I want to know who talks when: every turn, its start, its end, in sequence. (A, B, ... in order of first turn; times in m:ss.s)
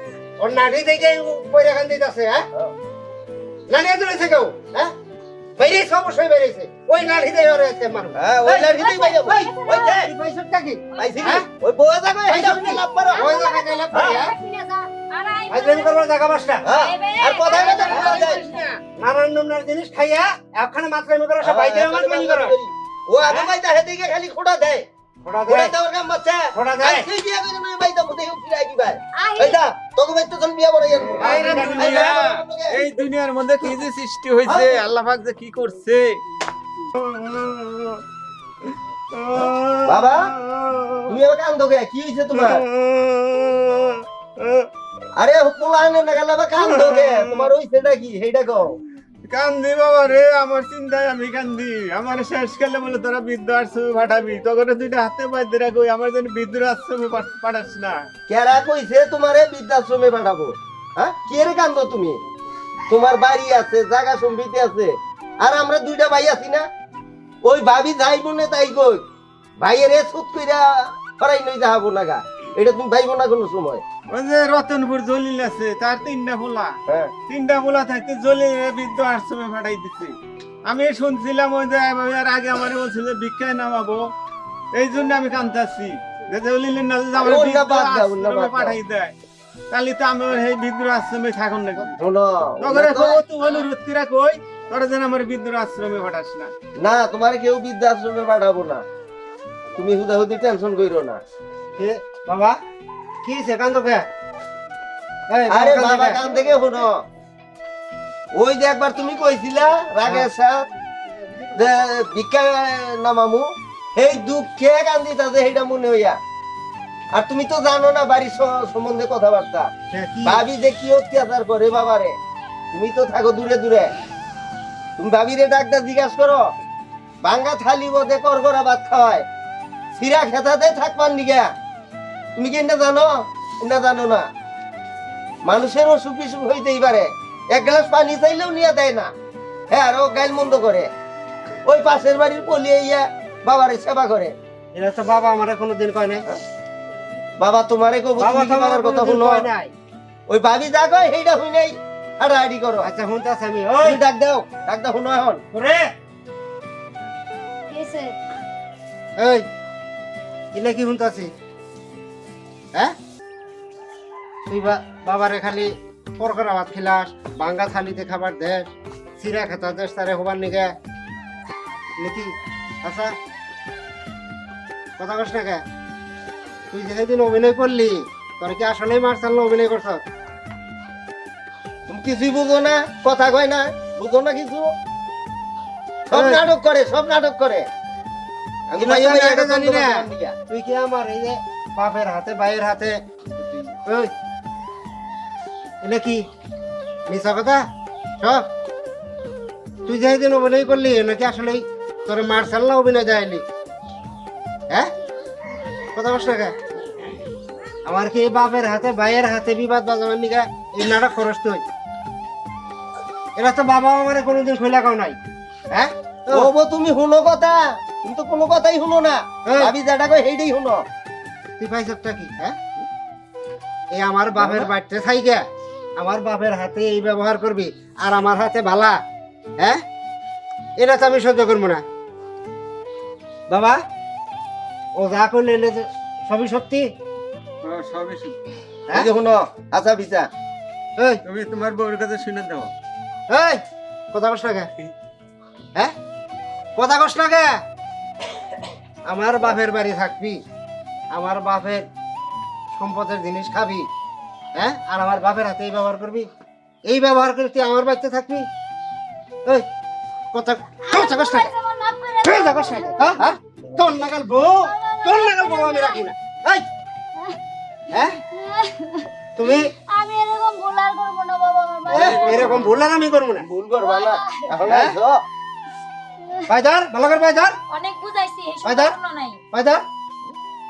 0:00.4-0:02.4 A
0:03.7-0:04.9 A
0:05.6-0:08.2 A
0:08.2-0:10.1 B
0:08.4-0:10.0 C
0:10.0-0:11.5 A
0:11.0-0:13.3 B
0:12.3-0:14.4 A
0:13.1-0:14.9 C
0:13.9-0:14.2 B
0:15.1-0:16.0 D
0:15.5-0:16.7 A
0:16.6-0:18.4 B
0:16.7-0:18.7 D
0:17.7-0:22.6 A
0:21.4-0:24.9 B
0:25.2-0:25.7 A
0:25.5-0:32.9 B
0:26.5-0:27.1 A
0:29.2-0:29.6 C
0:31.2-0:32.1 A
0:31.2-0:36.2 E
0:34.5-0:34.8 B
0:37.0-0:38.0 E
0:39.1-0:41.2 E
0:39.9-0:40.3 B
0:41.1-0:42.6 B
0:42.3-0:44.7 E
0:45.2-0:48.8 B
0:46.6-0:47.5 E
0:49.2-0:58.1 E
0:58.3-1:02.2 B
1:02.9-1:06.7 B
1:07.4-1:09.0 B
1:09.6-1:13.8 B
1:14.1-1:24.1 E
1:16.9-1:17.1 B
1:24.7-1:29.2 E
1:27.2-1:28.8 B
1:29.7-1:32.0 E
1:32.0-1:33.2 B
1:32.6-1:36.5 E
1:36.8-1:38.8 B
1:39.8-1:41.2 B
1:41.8-1:42.6 A
1:43.2-1:44.1 A
1:45.3-1:46.2 A
1:45.5-1:47.0 B
1:48.3-1:50.7 B
1:51.5-1:56.2 B
1:57.1-1:59.7 B
1:59.9-2:00.4 A
2:00.2-2:02.2 B
2:02.7-2:03.9 B
2:05.0-2:06.5 B
2:07.2-2:09.3 B
2:10.0-2:11.5 B
2:12.4-2:14.3 B
2:15.4-2:19.1 B
2:19.7-2:20.9 B
2:21.6-2:24.3 B
2:24.7-2:26.3 A
2:27.4-2:29.5 B
2:28.2-2:29.7 A
2:30.3-2:32.9 B
2:32.8-2:34.0 A
2:33.8-2:35.4 B
2:35.5-2:35.9 A
2:37.7-2:38.2 C
2:39.2-2:39.4 A
2:40.5-2:41.3 A
2:44.5-2:50.7 A
2:52.0-2:53.2 A
2:55.0-2:55.6 A
2:56.7-3:00.0 A
3:01.9-3:04.7 B
3:06.1-3:07.7 B
3:06.1-3:06.4 A
3:08.7-3:10.4 B
3:08.8-3:13.0 A
3:13.9-3:14.1 A
3:15.8-3:16.2 A
3:17.1-3:17.6 A
3:18.2-3:18.5 A
3:19.9-3:23.4 A
3:26.0-3:26.6 A
3:27.8-3:31.6 A
3:33.4-3:35.2 A
3:35.7-3:36.5 A
3:36.3-3:40.8 B
3:39.4-3:39.7 A
3:41.6-3:42.6 A
3:43.9-3:45.4 A
3:44.4-3:44.7 B
3:46.0-3:49.0 A
3:50.8-3:51.8 A
3:53.5-3:53.8 A
3:55.0-3:56.9 A
3:57.6-3:58.4 E
3:58.9-4:00.3 B
4:01.2-4:02.7 E
4:03.3-4:04.7 A
4:06.8-4:07.6 A
4:09.1-4:10.4 A
4:11.1-4:11.9 A
4:12.7-4:13.9 A
4:14.6-4:16.3 A
4:16.8-4:18.5 A
4:20.3-4:21.5 A
4:20.8-4:23.2 C
4:22.2-4:26.7 A
4:24.6-4:26.0 C
4:27.9-4:28.2 A
4:28.3-4:32.6 C
4:29.4-4:29.7 A
4:31.9-4:32.8 B
4:31.9-4:33.5 A
4:33.4-4:35.2 B
4:33.8-4:34.5 C
4:34.6-4:35.0 A
4:36.5-4:37.6 A
4:37.7-4:39.4 D
4:38.6-4:39.0 A
4:39.5-4:39.8 A